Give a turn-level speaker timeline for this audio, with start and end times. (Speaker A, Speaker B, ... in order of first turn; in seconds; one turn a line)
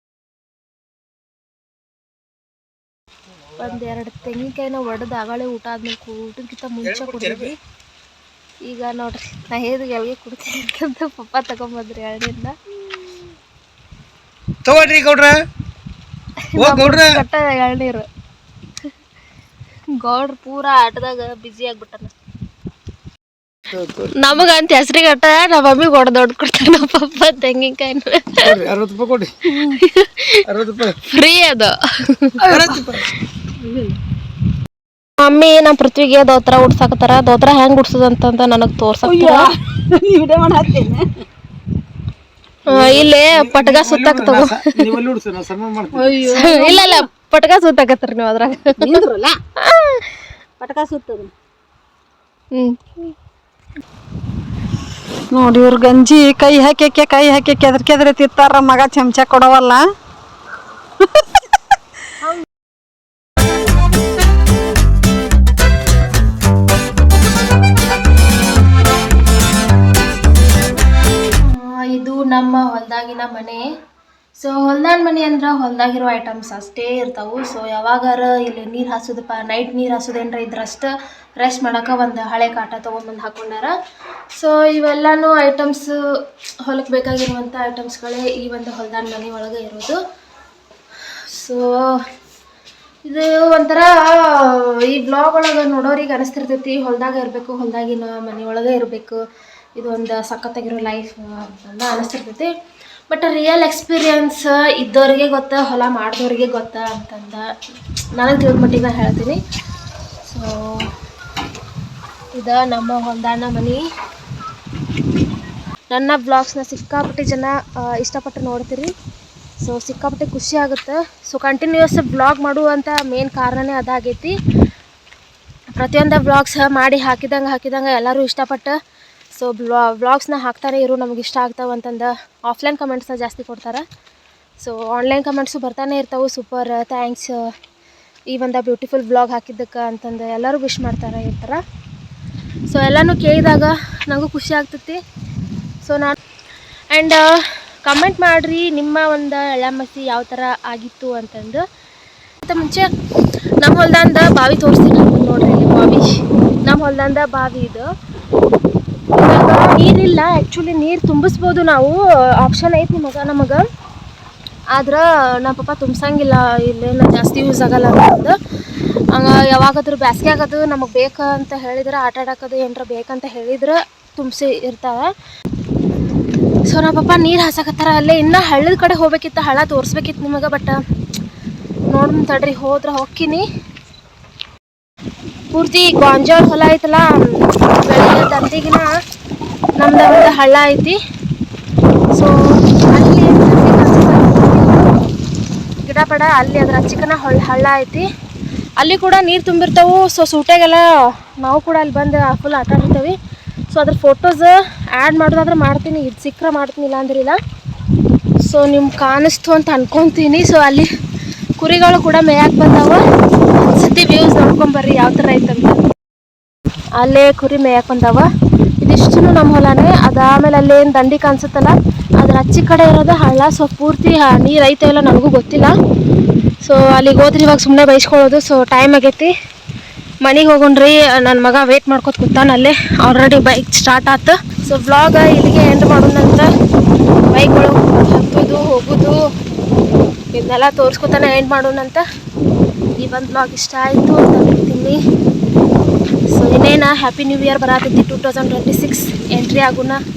Speaker A: 3.6-7.6
Speaker B: 7.0-7.5
Speaker A: 8.7-12.6
Speaker B: 14.7-15.4
Speaker A: 16.6-18.1
Speaker B: 16.6-17.2
Speaker A: 20.0-22.1
Speaker B: 23.7-24.1
Speaker A: 24.1-28.6
Speaker B: 28.4-29.5
Speaker A: 29.5-30.4
Speaker B: 30.5-31.0
Speaker A: 31.0-32.4
Speaker C: 32.4-32.9
Speaker B: 32.4-33.1
Speaker C: 33.6-34.0
Speaker A: 35.2-39.5
Speaker C: 39.0-41.2
Speaker A: 42.7-44.9
Speaker B: 42.7-46.1
Speaker C: 45.9-47.1
Speaker A: 46.2-49.0
Speaker C: 48.8-49.4
Speaker A: 49.6-50.2
Speaker C: 50.6-51.3
Speaker A: 52.5-53.1
Speaker C: 55.3-59.9
Speaker A: 62.2-62.5
Speaker A: 71.4-73.7
Speaker A: 74.4-83.7
Speaker A: 84.3-90.0
Speaker A: 91.1-92.1
Speaker A: 93.0-99.2
Speaker A: 99.8-102.5
Speaker A: 103.1-107.5
Speaker A: 108.2-109.4
Speaker A: 110.2-111.0
Speaker A: 112.3-113.8
Speaker A: 115.9-118.9
Speaker A: 119.6-124.4
Speaker A: 125.8-128.8
Speaker A: 129.3-133.8
Speaker A: 134.6-137.5
Speaker A: 138.3-141.6
Speaker A: 142.7-145.0
Speaker A: 145.8-146.2
Speaker A: 146.9-151.6
Speaker A: 152.4-152.9
Speaker A: 153.6-157.9
Speaker A: 159.1-163.6
Speaker A: 164.7-168.4
Speaker A: 169.1-175.1
Speaker A: 176.7-180.8
Speaker A: 181.9-183.4
Speaker A: 185.5-188.9
Speaker A: 189.8-191.0
Speaker A: 192.1-194.8
Speaker A: 195.9-198.1
Speaker A: 198.8-203.2
Speaker A: 203.7-207.4
Speaker A: 208.5-210.9
Speaker A: 211.6-213.0
Speaker A: 213.6-215.8
Speaker A: 217.0-218.3
Speaker A: 218.8-225.7
Speaker A: 226.6-229.3
Speaker A: 230.2-236.5
Speaker A: 237.3-239.2
Speaker A: 240.3-242.0
Speaker A: 243.0-245.0
Speaker A: 246.3-250.0